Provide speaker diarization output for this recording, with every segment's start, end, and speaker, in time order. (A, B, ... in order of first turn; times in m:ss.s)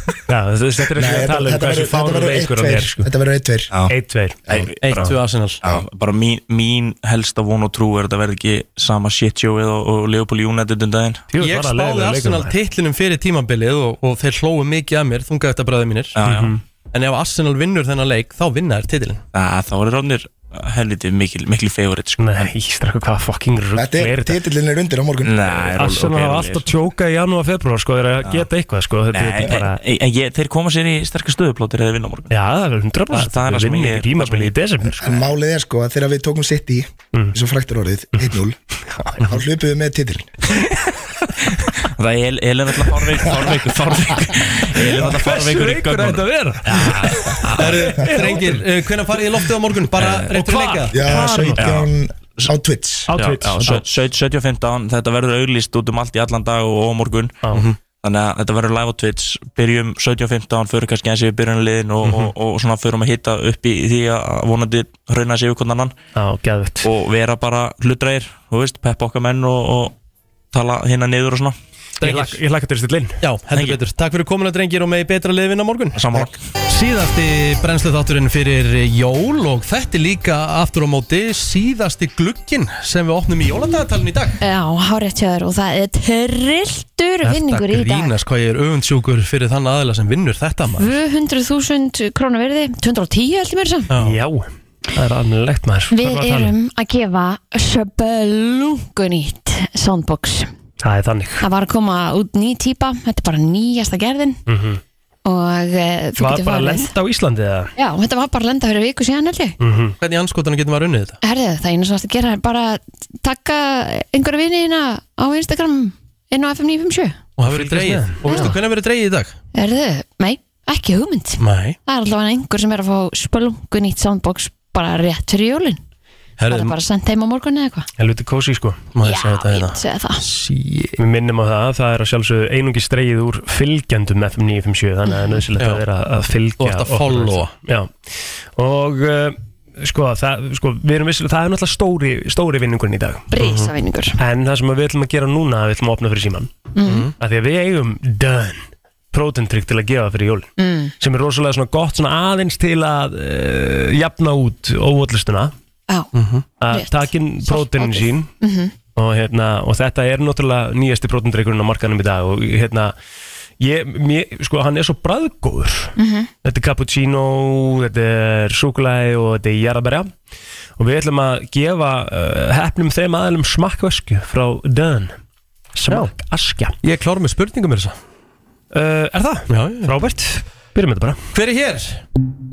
0:00.3-0:03.1 A
0:00.9-0:03.8 B
0:03.9-0:05.1 A
0:04.5-0:05.0 C
0:04.8-0:05.6 D
0:05.6-0:11.2 C
0:11.3-0:12.5 A
0:11.4-0:16.2 D
0:16.2-0:16.5 C
0:16.2-0:16.6 A
0:16.9-0:19.2 D
0:19.3-0:22.5 C
0:22.2-0:24.4 A
0:23.8-0:25.4 B
0:25.2-0:26.7 C
0:25.5-0:29.8 A
0:29.1-0:32.3 C
0:32.3-0:35.2 A
0:33.1-0:34.5 C
0:34.8-0:38.6 B
0:39.1-0:40.3 B
0:42.0-0:47.8 C
0:44.8-0:48.6 A
0:47.6-0:51.0 D
0:50.0-0:50.2 C
0:50.3-0:51.9 A
0:50.9-0:53.1 B
0:51.6-0:51.8 C
0:53.1-0:53.8 A
0:53.1-0:57.4 C
0:58.0-1:05.9 C
1:06.1-1:06.9 A
1:06.8-1:09.9 C
1:10.5-1:11.6 C
1:12.0-1:12.4 D
1:12.0-1:13.2 A
1:13.2-1:24.4 D
1:13.5-1:13.8 C
1:15.9-1:16.4 C
1:24.4-1:28.1 E
1:27.2-1:30.9 D
1:30.8-1:33.9 E
1:33.9-1:34.2 D
1:34.0-1:36.5 A
1:35.9-1:40.5 E
1:40.8-1:41.4 A
1:41.4-1:44.4 E
1:44.5-1:44.8 A
1:45.2-1:46.9 E
1:46.2-1:47.7 A
1:47.8-1:49.6 E
1:49.6-1:50.0 A
1:50.0-1:51.2 D
1:51.2-1:57.2 E
1:57.4-1:59.4 D
1:57.4-1:58.5 A
1:58.3-1:58.5 E
1:59.5-2:05.8 E
2:01.4-2:01.8 D
2:06.4-2:06.8 D
2:06.5-2:07.9 E
2:08.0-2:08.9 A
2:08.9-2:11.0 D
2:09.0-2:10.2 E
2:11.0-2:17.9 A
2:15.6-2:15.8 D
2:16.6-2:17.5 D
2:18.6-2:23.3 A
2:23.3-2:24.2 E
2:23.4-2:23.7 D
2:24.2-2:26.5 A
2:26.8-2:27.1 E
2:26.8-2:27.1 D
2:27.2-2:35.5 A
2:30.6-2:30.9 E
2:36.1-2:36.4 D
2:36.6-2:38.3 A
2:36.7-2:38.7 E
2:39.0-2:42.9 A
2:43.6-2:50.1 A
2:46.0-2:46.3 E
2:50.8-2:55.1 A
2:55.7-2:56.8 A
2:56.8-2:58.0 D
2:58.7-3:01.2 A
2:59.5-2:59.9 D
3:01.3-3:02.0 D